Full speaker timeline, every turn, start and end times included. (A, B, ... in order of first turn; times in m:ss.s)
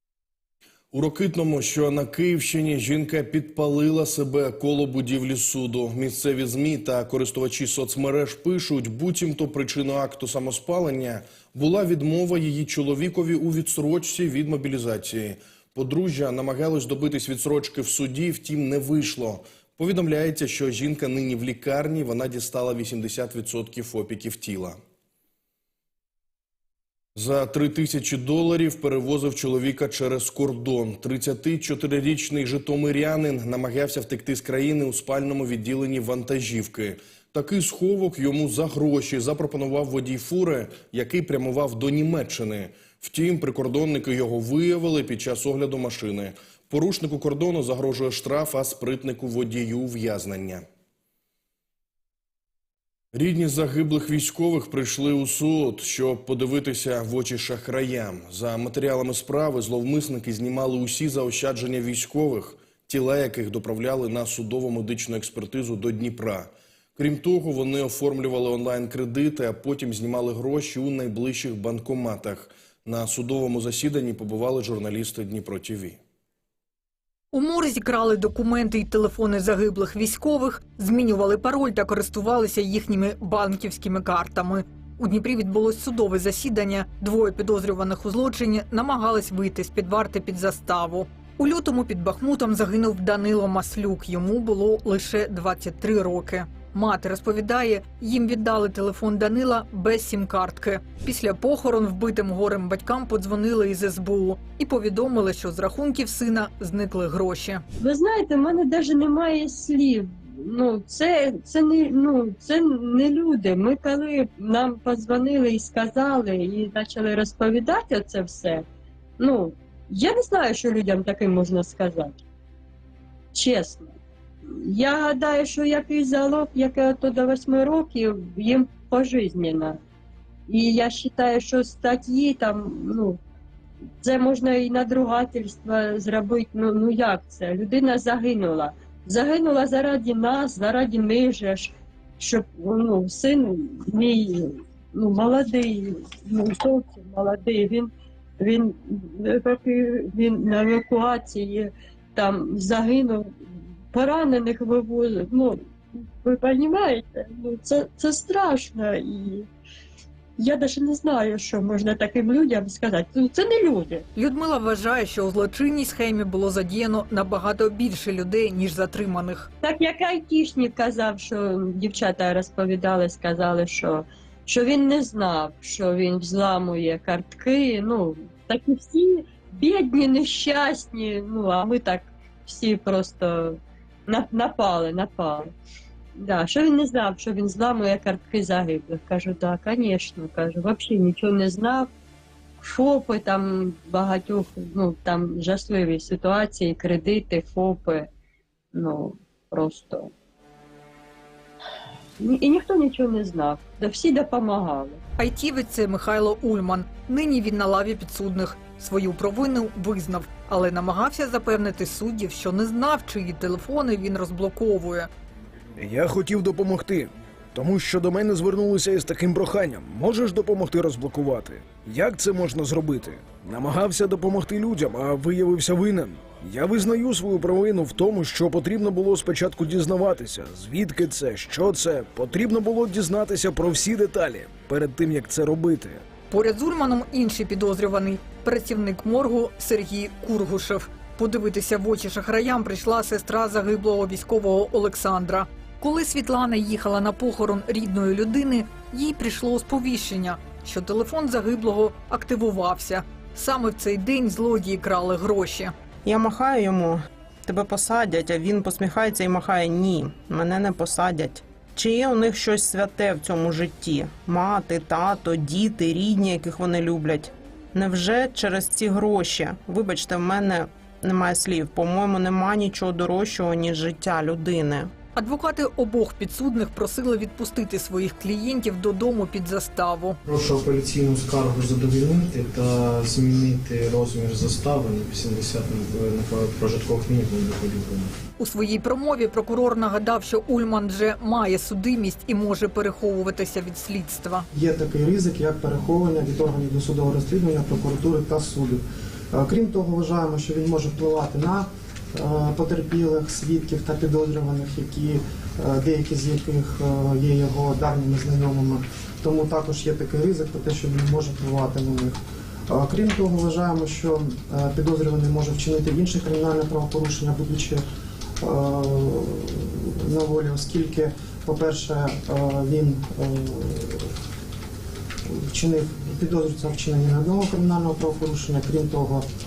0:00.9-0:24.8 A
0:27.2-0:50.6 A
0:53.1-1:16.0 A
1:17.3-1:47.6 B
1:47.8-1:58.6 C
1:59.2-2:02.2 C
2:03.3-2:04.0 C
2:04.5-2:09.8 C
2:10.5-2:13.2 C
2:14.0-2:27.9 C
2:28.4-2:33.3 C
2:33.9-2:35.6 C
2:36.2-2:39.5 C
2:40.4-2:44.0 C
2:44.2-2:49.5 B
2:49.6-3:05.5 C
3:06.2-3:11.9 C
3:12.6-3:18.1 C
3:18.7-3:20.1 C
3:22.2-3:25.0 C
3:25.2-3:35.1 B
3:35.8-3:56.0 D
3:56.3-4:15.7 B
4:16.1-4:34.9 E
4:35.2-4:40.2 B
4:40.3-4:48.1 F
4:48.4-4:54.5 B
4:54.5-4:58.8 G
4:59.3-5:12.2 G
5:12.7-5:17.8 G
5:18.4-5:24.1 G
5:25.3-5:29.2 G